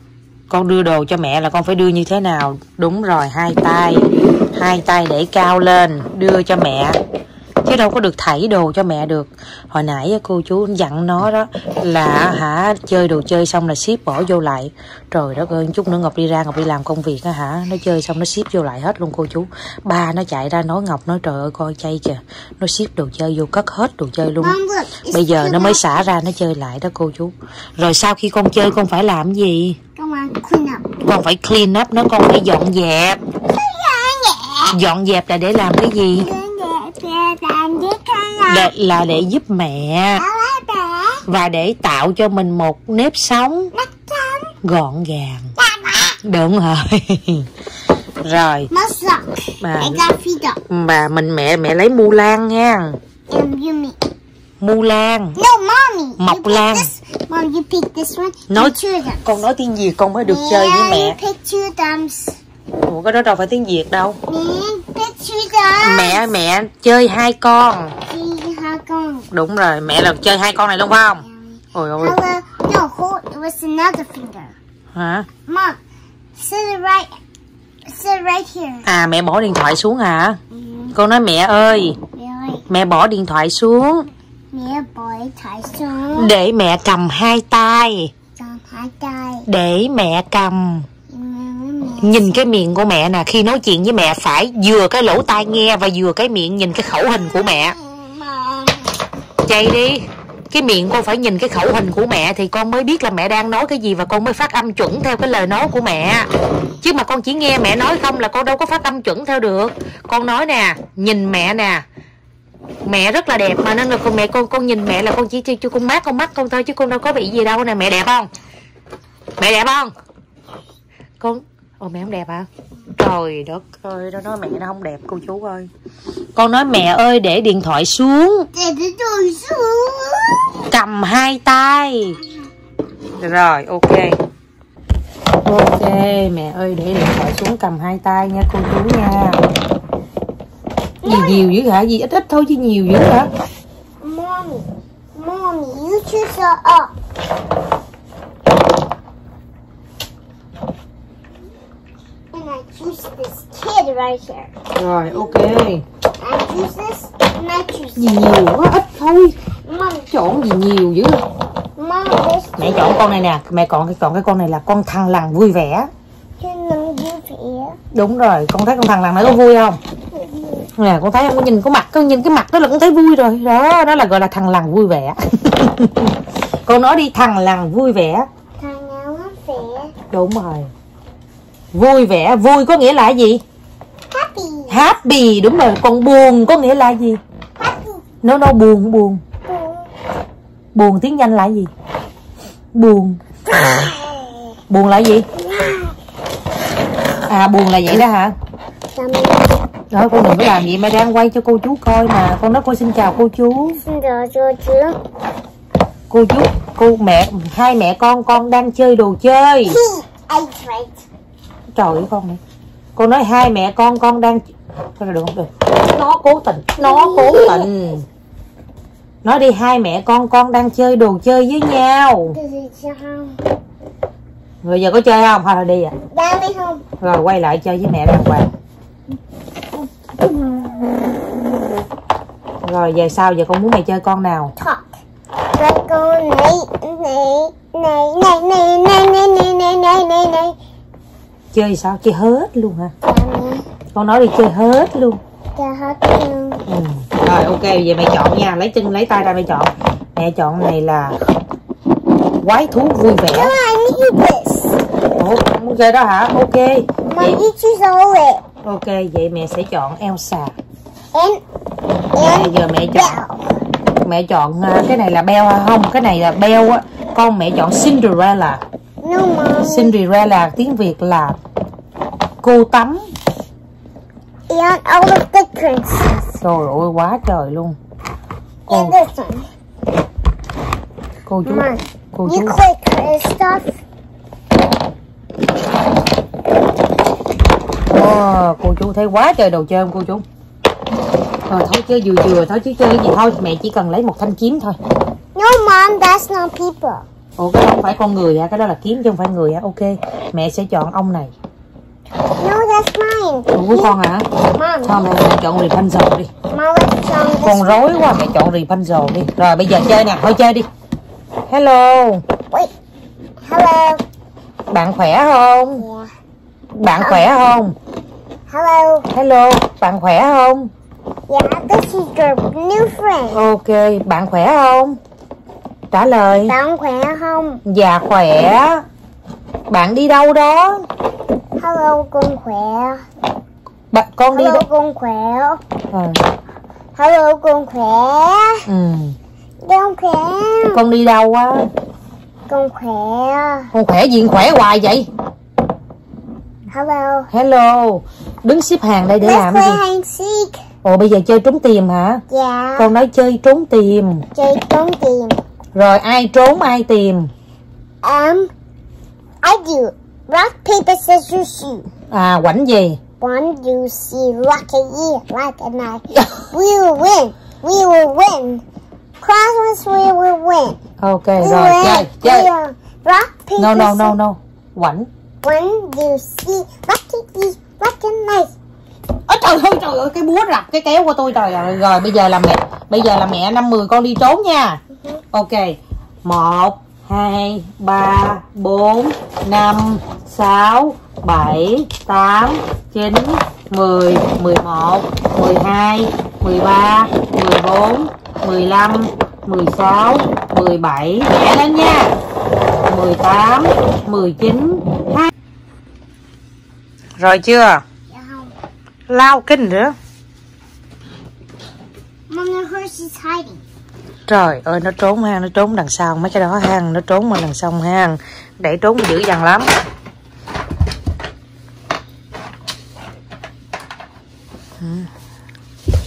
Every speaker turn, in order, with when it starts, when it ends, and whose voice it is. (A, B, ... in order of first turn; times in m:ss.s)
0:00.5-0:07.0 A
0:07.6-0:24.6 A
0:24.4-0:25.8 B
0:25.1-0:29.8 A
0:30.0-0:30.9 B
0:31.0-0:33.2 A
0:33.5-0:34.8 B
0:34.7-0:36.3 A
0:36.2-0:38.7 B
0:38.5-0:40.2 A
0:40.2-0:41.2 B
0:41.3-0:43.7 A
0:43.7-0:44.6 B
0:44.6-0:45.5 A
0:45.6-0:46.2 B
0:46.2-0:47.5 A
0:48.2-0:48.7 A
0:48.7-0:50.6 B
0:49.6-0:50.0 A
0:50.7-0:53.0 A
0:53.3-0:54.0 B
0:54.6-0:55.4 A
0:55.4-0:59.4 B
0:56.2-0:56.9 A
0:59.2-1:01.2 A
1:00.2-1:02.4 B
1:02.8-1:04.2 A
1:04.3-1:06.3 B
1:05.8-1:08.0 A
1:08.1-1:09.3 B
1:09.3-1:12.2 A
1:11.2-1:14.6 B
1:14.9-1:15.3 A
1:15.5-1:15.8 B
1:16.4-1:17.1 B
1:17.9-1:18.9 B
1:18.8-1:20.4 A
1:20.5-1:21.0 B
1:21.0-1:22.0 A
1:22.2-1:22.7 B
1:22.7-1:24.1 A
1:24.5-1:26.3 B
1:26.2-1:28.1 A
1:28.4-1:29.5 B
1:29.5-1:30.9 A
1:31.1-1:32.4 B
1:32.0-1:37.8 A
1:37.2-1:39.0 B
1:39.4-1:46.3 A
1:46.8-1:51.8 A
1:52.8-1:58.3 A
1:59.4-1:59.9 A
2:01.2-2:05.7 A
2:06.4-2:08.5 A
2:08.5-2:10.6 B
2:10.7-2:12.2 A
2:13.2-2:14.2 A
2:15.4-2:19.4 A
2:21.0-2:21.4 B
2:21.0-2:23.3 A
2:24.0-2:26.9 B
2:32.3-2:34.5 B
2:34.8-2:35.8 A
2:36.2-2:38.2 B
2:38.0-2:39.4 A
2:39.6-2:40.1 B
2:40.1-2:41.2 A
2:41.8-2:43.0 B
2:42.6-2:45.9 A
2:46.4-2:47.8 B
2:47.9-2:49.8 A
2:50.1-2:50.7 B
2:50.8-2:56.2 A
2:56.7-2:58.3 A
2:58.6-2:59.9 B
3:00.1-3:00.7 A
3:01.7-3:03.4 A
3:04.1-3:04.8 B
3:04.7-3:07.2 A
3:07.6-3:08.0 B
3:08.2-3:09.2 A
3:09.4-3:09.9 B
3:10.7-3:11.7 A
3:12.7-3:13.2 A
3:13.5-3:14.6 B
3:14.7-3:15.3 A
3:15.4-3:16.0 B
3:17.3-3:18.3 A
3:18.9-3:19.6 B
3:19.9-3:23.8 A
3:23.8-3:25.0 B
3:26.1-3:29.8 A
3:29.6-3:31.0 B
3:31.8-3:32.4 A
3:33.0-3:34.4 A
3:35.0-3:38.1 A
3:36.8-3:37.7 B
3:39.2-3:42.4 A
3:42.3-3:43.4 B
3:44.6-3:45.9 A
3:46.1-3:46.8 B
3:47.0-3:48.5 A
3:49.8-3:51.2 B
3:52.6-3:54.5 A
3:54.6-3:54.9 B
3:55.6-4:00.6 B
4:01.5-4:02.9 A
4:03.0-4:03.6 B
4:04.0-4:05.2 A
4:05.6-4:06.6 B
4:06.7-4:11.2 A
4:12.4-4:13.6 A
4:13.3-4:14.8 B
4:15.2-4:17.4 A
4:17.1-4:18.4 B
4:18.6-4:20.5 A
4:21.1-4:21.4 B
4:22.1-4:23.5 B
4:22.2-4:23.2 A
4:24.0-4:28.6 A
4:29.0-4:29.9 B
4:29.6-4:31.4 A
4:32.4-4:33.0 A
4:34.5-4:36.4 B
4:36.4-4:37.8 A
4:38.7-4:39.5 B
4:38.7-4:39.0 A
4:41.3-4:42.6 A
4:41.5-4:43.7 B
4:47.9-4:50.2 A
4:51.5-4:54.8 A
4:55.4-4:57.0 B
4:57.4-5:01.3 A
5:02.4-5:03.9 B
5:03.5-5:04.3 A
5:04.5-5:05.1 B
5:04.8-5:06.3 A
5:06.5-5:07.8 B
5:07.4-5:10.7 A
5:11.5-5:12.2 A
5:13.4-5:14.0 B
5:14.7-5:15.8 A
5:15.7-5:16.1 B
5:16.8-5:17.7 A
5:17.0-5:17.3 B
5:18.5-5:19.1 B
5:19.1-5:20.7 A
5:21.3-5:23.4 B
5:23.3-5:25.0 A
5:25.9-5:26.6 A
5:26.4-5:27.6 B
5:27.6-5:28.8 A
5:29.7-5:30.9 A
5:31.6-5:33.0 B
5:33.9-5:34.6 A
5:34.3-5:35.6 B
5:35.9-5:36.2 A
5:37.0-5:38.6 B
5:38.7-5:39.2 A
5:39.6-5:40.8 B
5:40.7-5:41.7 A
5:42.5-5:43.7 B
5:43.7-5:45.1 A
5:46.7-5:47.3 B
5:47.3-5:49.8 A
5:49.2-5:50.6 B
5:50.8-5:52.2 A
5:52.3-5:52.9 B
5:52.8-5:54.2 A
5:54.3-5:55.4 B
5:55.8-5:57.3 A
5:58.0-5:58.5 B
5:59.4-6:01.9 B
6:02.1-6:03.0 A
6:03.2-6:08.6 B
6:09.2-6:10.8 B
6:11.0-6:12.5 A
6:11.4-6:14.2 B
6:13.6-6:15.1 A
6:15.4-6:18.5 B
6:19.3-6:24.8 A
6:25.0-6:25.2 B
6:25.3-6:42.1 A
6:42.9-6:45.3 A
6:47.2-6:47.8 A
6:48.1-6:48.5 B
6:49.1-6:50.0 A
6:52.3-6:53.6 B
6:54.3-6:59.7 A
7:04.8-7:05.1 A